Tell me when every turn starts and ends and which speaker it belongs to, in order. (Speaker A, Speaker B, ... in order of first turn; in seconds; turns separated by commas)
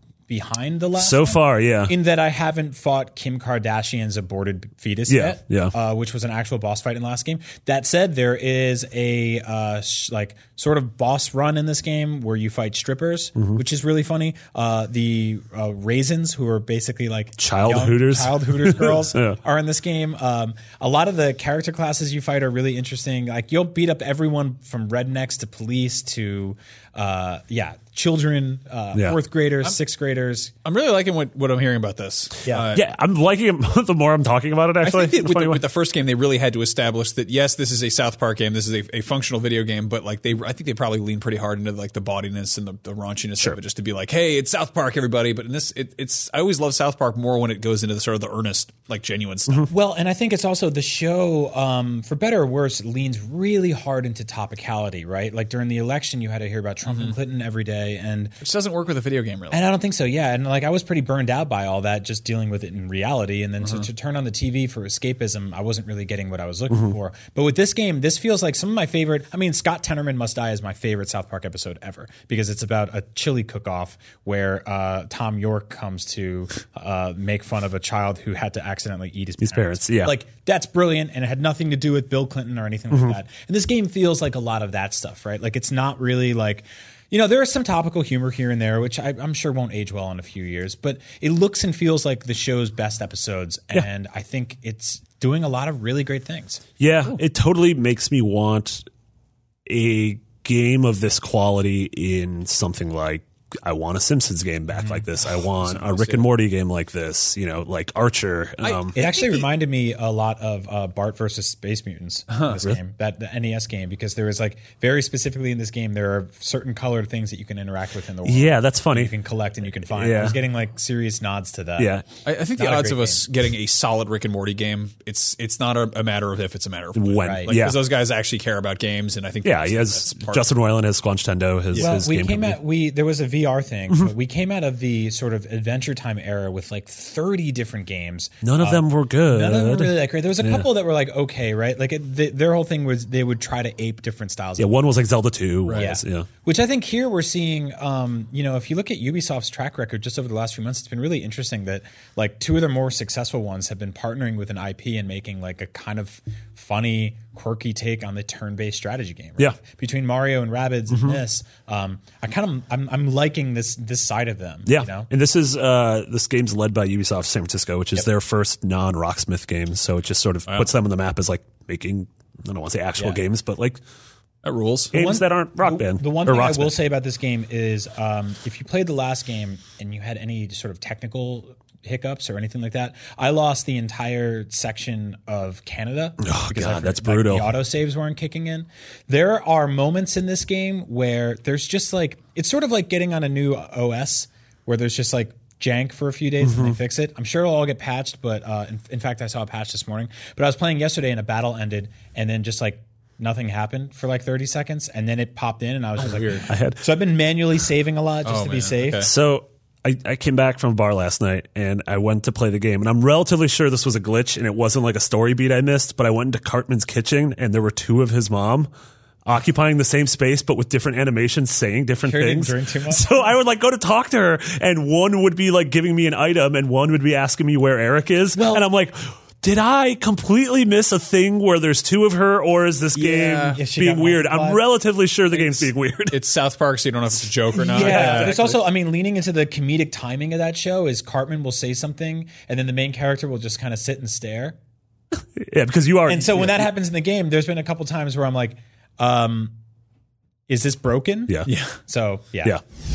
Speaker A: 0.3-30.5, Speaker B: 1.0-1.9, Speaker B: 5.1-5.7, Speaker B: 17.4-19.4, Speaker C: 30.6-32.8, Speaker B: 32.7-35.6, Speaker C: 34.8-49.7, Speaker A: 49.7-58.3, Speaker C: 56.9-57.1, Speaker C: 58.4-59.7, Speaker A: 59.5-96.6, Speaker C: 63.6-63.9, Speaker B: 79.4-80.2, Speaker B: 96.8-98.9, Speaker B: 99.7-109.0, Speaker A: 104.7-105.0, Speaker C: 105.7-106.2, Speaker C: 108.6-109.5, Speaker A: 109.0-121.9, Speaker C: 112.3-112.5, Speaker B: 118.2-119.1, Speaker B: 119.9-120.4, Speaker B: 121.8-122.1, Speaker C: 122.2-130.5, Speaker A: 122.6-123.2, Speaker B: 127.0-127.8, Speaker A: 127.2-127.5, Speaker B: 129.4-132.6, Speaker A: 131.8-144.8, Speaker B: 138.4-140.7, Speaker B: 144.6-146.3, Speaker C: 145.7-145.9, Speaker A: 145.7-165.1, Speaker B: 160.9-161.2, Speaker B: 164.7-173.8, Speaker C: 174.4-174.9, Speaker B: 174.9-176.8, Speaker A: 174.9-209.1, Speaker B: 186.2-187.5, Speaker B: 196.4-196.8, Speaker C: 206.0-206.4, Speaker B: 206.5-206.8, Speaker C: 208.2-209.1, Speaker B: 209.0-218.7, Speaker B: 219.3-236.2, Speaker A: 222.0-223.3, Speaker A: 228.3-228.7, Speaker A: 233.0-234.6, Speaker C: 233.1-233.6, Speaker A: 235.3-235.6, Speaker C: 236.1-238.6, Speaker A: 237.6-244.6, Speaker B: 237.7-238.6, Speaker B: 245.4-246.7, Speaker A: 246.1-249.5, Speaker A: 250.5-252.6, Speaker C: 251.5-251.7